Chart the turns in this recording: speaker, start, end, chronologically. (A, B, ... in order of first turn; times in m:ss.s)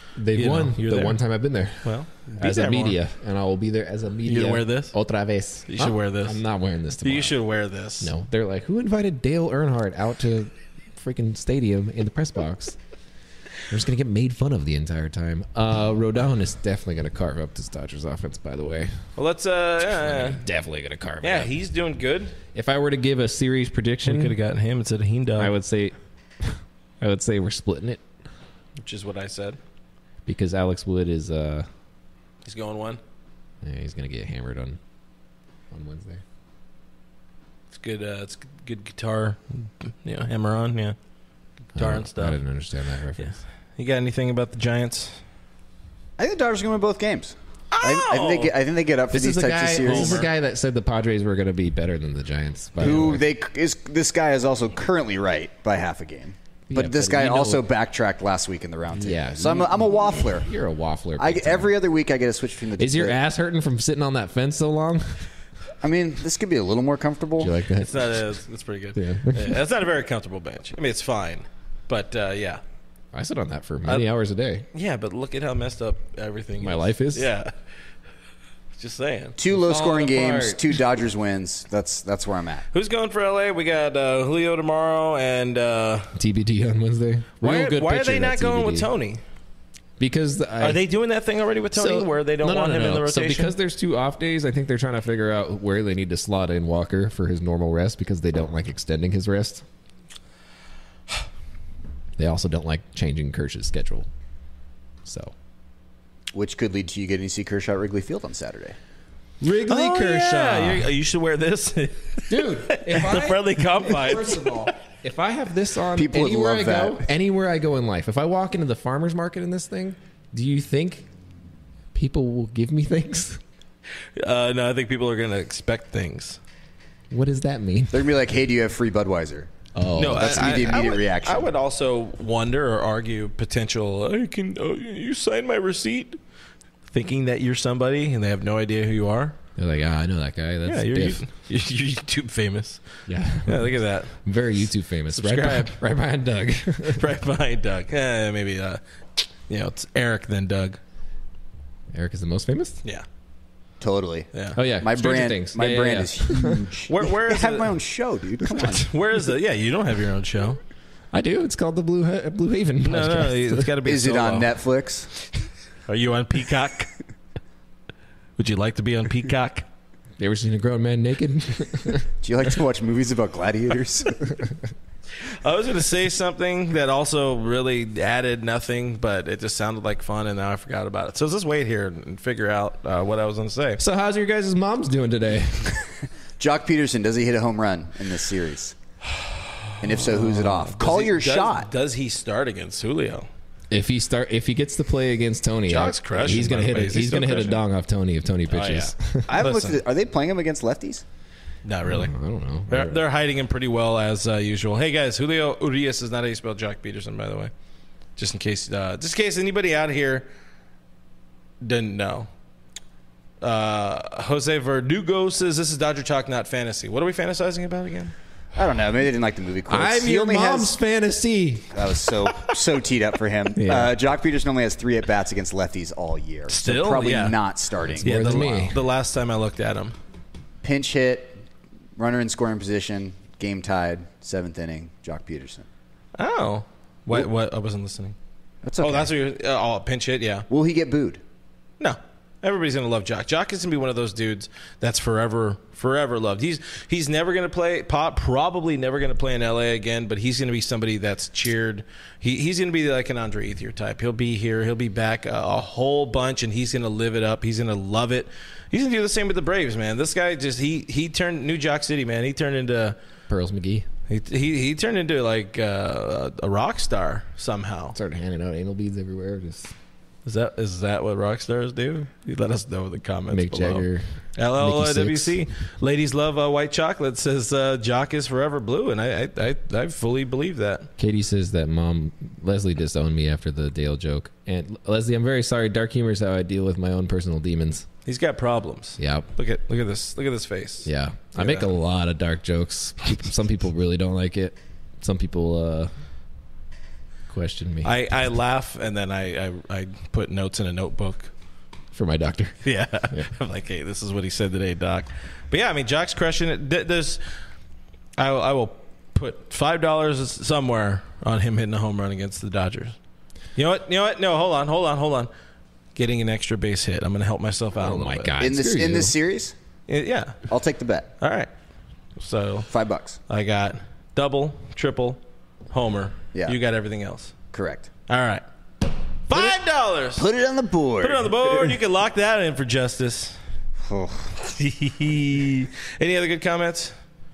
0:00.2-0:07.4 A
0:00.3-0:01.2 B
0:01.8-0:03.0 B
0:04.2-0:05.0 B
0:05.7-0:06.4 B
0:07.0-0:08.1 B
0:08.0-0:12.8 A
0:13.7-0:19.0 A
0:19.2-0:20.4 B
0:20.0-0:21.5 A
0:21.2-0:22.4 B
0:22.5-0:24.4 A
0:24.0-0:25.5 B
0:25.4-0:28.0 A
0:28.8-0:29.6 B
0:30.2-0:31.7 A
0:32.4-0:33.0 B
0:33.6-0:34.8 A
0:35.7-0:36.2 A
0:37.7-0:41.0 B
0:41.7-0:42.4 B
0:41.8-0:43.4 A
0:43.2-0:45.2 B
0:46.2-0:50.3 C
0:47.7-0:48.5 B
0:49.1-0:53.2 A
0:49.8-0:50.3 B
0:52.8-1:00.5 C
0:56.7-0:57.6 A
0:58.9-1:01.7 A
1:01.2-1:03.2 C
1:02.8-1:05.3 A
1:05.8-1:07.5 C
1:07.4-1:08.2 A
1:07.8-1:12.6 B
1:09.0-1:09.6 A
1:13.1-1:14.6 A
1:14.7-1:17.5 B
1:16.6-1:17.3 A
1:18.8-1:19.4 B
1:19.4-1:22.6 C
1:19.5-1:20.8 A
1:22.7-1:26.1 B
1:26.2-1:28.9 A
1:27.4-1:29.2 B
1:30.0-1:30.8 A
1:30.6-1:33.5 B
1:31.7-1:39.6 A
1:42.2-1:44.1 A
1:45.0-1:45.3 A
1:46.3-1:48.8 C
1:49.4-1:50.9 A
1:49.7-1:54.7 B
1:52.3-2:01.1 A
1:56.0-1:57.0 C
2:01.9-2:03.4 A
2:04.2-2:06.4 B
2:07.1-2:08.1 A
2:07.9-2:09.5 C
2:09.7-2:10.8 A
2:10.0-2:16.2 B
2:10.1-2:11.5 C
2:16.9-2:19.3 B
2:19.6-2:21.2 A
2:20.6-2:22.8 B
2:23.1-2:27.0 A
2:23.4-2:24.2 B
2:25.1-2:25.8 B
2:26.9-2:30.8 B
2:31.9-2:32.8 A
2:33.8-2:38.9 C
2:34.3-2:34.6 B
2:34.6-2:36.6 A
2:36.9-2:37.8 B
2:38.5-2:40.6 B
2:41.1-2:43.7 A
2:42.8-2:44.6 B
2:43.8-2:45.1 C
2:45.9-2:46.9 B
2:48.4-2:49.6 B
2:50.2-2:52.0 A
2:52.2-2:54.3 C
2:55.2-3:03.8 B
3:03.8-3:05.8 A
3:06.4-3:08.8 C
3:09.8-3:11.7 C
3:09.9-3:13.3 B
3:13.7-3:19.3 A
3:15.7-3:17.6 B
3:18.5-3:19.8 B
3:19.3-3:21.0 C
3:21.6-3:22.1 B
3:21.8-3:23.0 A
3:22.7-3:27.5 B
3:28.2-3:30.3 B
3:31.6-3:32.3 B
3:33.4-3:38.1 B
3:38.6-3:40.8 C
3:39.7-3:41.9 A
3:41.7-3:48.5 C
3:43.6-3:44.0 A
3:46.5-3:47.4 B
3:48.0-3:48.8 A
3:48.0-3:50.0 B
3:50.6-3:51.4 C
3:52.0-3:55.7 C
3:56.2-3:58.2 B
3:58.6-3:59.1 C
3:58.8-4:00.5 B
4:00.5-4:01.2 C
4:01.8-4:23.0 B
4:23.3-4:23.9 A
4:24.1-4:28.0 B
4:27.9-4:29.7 A
4:30.2-4:33.9 B
4:33.3-4:35.4 A
4:34.4-4:40.9 B
4:41.0-4:47.9 A
4:48.0-4:51.7 B
4:49.0-4:49.3 A
4:50.8-4:55.9 A
4:57.3-4:58.0 A
4:57.8-5:01.3 B
5:01.9-5:03.3 A
5:02.6-5:07.2 B
5:08.2-5:12.9 B
5:13.6-5:15.3 B
5:15.9-5:18.3 B
5:17.8-5:19.1 A
5:18.4-5:19.6 C
5:19.9-5:20.4 B
5:20.5-5:21.1 C
5:21.2-5:21.5 B
5:22.2-5:22.7 B
5:22.7-5:23.2 C
5:23.3-5:25.2 B
5:25.7-5:27.3 B
5:27.5-5:27.9 C
5:28.1-5:28.4 B
5:29.3-5:30.3 B
5:30.2-5:31.8 C
5:31.0-5:33.4 B
5:33.8-5:34.3 C
5:34.4-5:36.9 B